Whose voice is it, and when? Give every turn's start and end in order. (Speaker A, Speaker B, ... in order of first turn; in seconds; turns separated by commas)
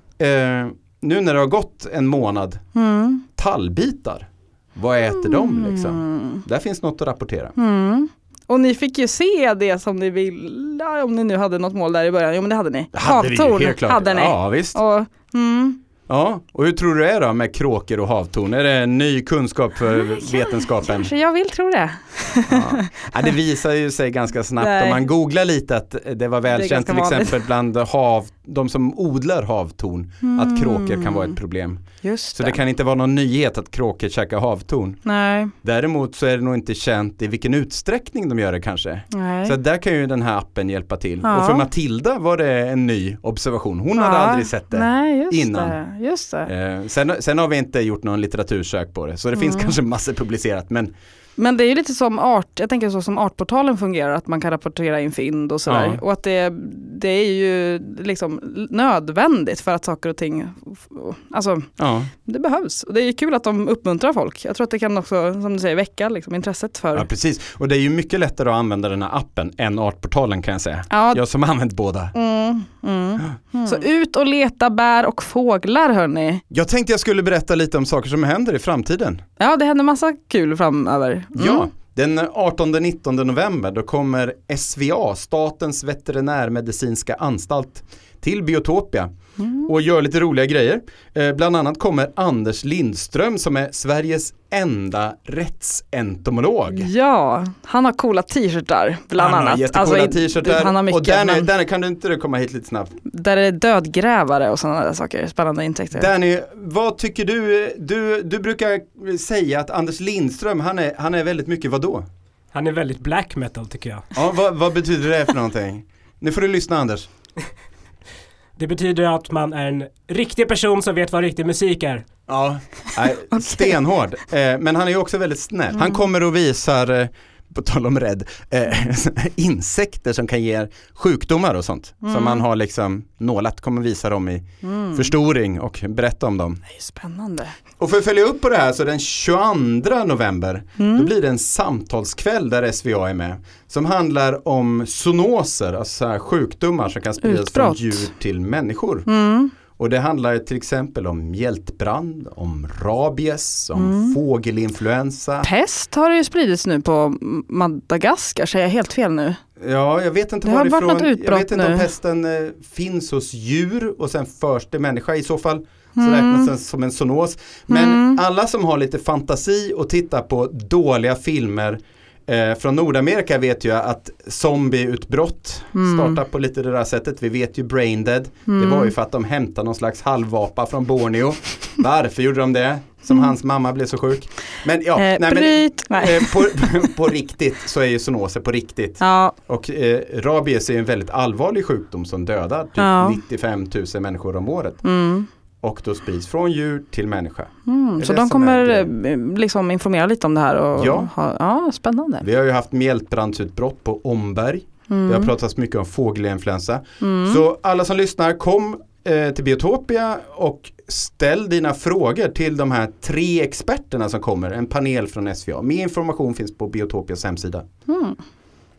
Speaker A: 0.2-2.7, Speaker B: 2.7-3.2, Speaker A: 3.4-7.5, Speaker B: 5.1-6.5, Speaker B: 7.5-15.8, Speaker A: 12.9-14.8, Speaker A: 16.1-21.1, Speaker B: 19.9-23.1, Speaker A: 22.5-45.8, Speaker B: 24.6-25.1, Speaker B: 26.5-27.4, Speaker B: 30.2-31.4, Speaker B: 32.0-32.6, Speaker B: 35.0-35.5, Speaker B: 39.1-39.6, Speaker B: 41.2-41.7, Speaker B: 44.0-46.5, Speaker A: 46.5-50.9, Speaker B: 49.3-49.7, Speaker B: 51.4-67.1, Speaker A: 55.6-56.0, Speaker A: 61.8-62.1, Speaker A: 66.9-72.1, Speaker B: 70.9-71.2, Speaker B: 72.1-76.4, Speaker A: 73.2-73.7, Speaker A: 76.5-79.2, Speaker B: 79.4-81.7, Speaker A: 81.3-96.9, Speaker B: 89.4-89.7, Speaker B: 96.7-101.5, Speaker A: 99.2-103.0, Speaker B: 103.1-106.1, Speaker A: 105.9-112.1, Speaker C: 112.5-114.1, Speaker A: 114.1-117.1, Speaker C: 118.5-122.1, Speaker A: 122.3-136.6, Speaker B: 123.3-123.7, Speaker B: 125.8-126.0, Speaker B: 132.0-132.4, Speaker B: 134.6-135.1, Speaker B: 136.7-137.6, Speaker A: 137.8-149.1, Speaker B: 140.8-141.1, Speaker B: 147.2-148.1, Speaker B: 149.1-149.5, Speaker A: 149.7-155.5, Speaker B: 153.7-154.2, Speaker B: 155.4-159.4, Speaker A: 159.6-194.8, Speaker B: 160.4-161.9, Speaker B: 165.9-166.5, Speaker B: 167.7-168.2, Speaker B: 175.7-176.2, Speaker B: 178.5-178.9, Speaker B: 184.9-186.8, Speaker B: 189.0-189.4, Speaker B: 192.8-193.2, Speaker B: 194.8-195.3, Speaker A: 195.6-198.9, Speaker B: 197.7-202.2, Speaker A: 200.8-201.1, Speaker A: 202.2-217.7, Speaker B: 204.9-205.3, Speaker B: 207.0-207.4, Speaker B: 217.9-218.2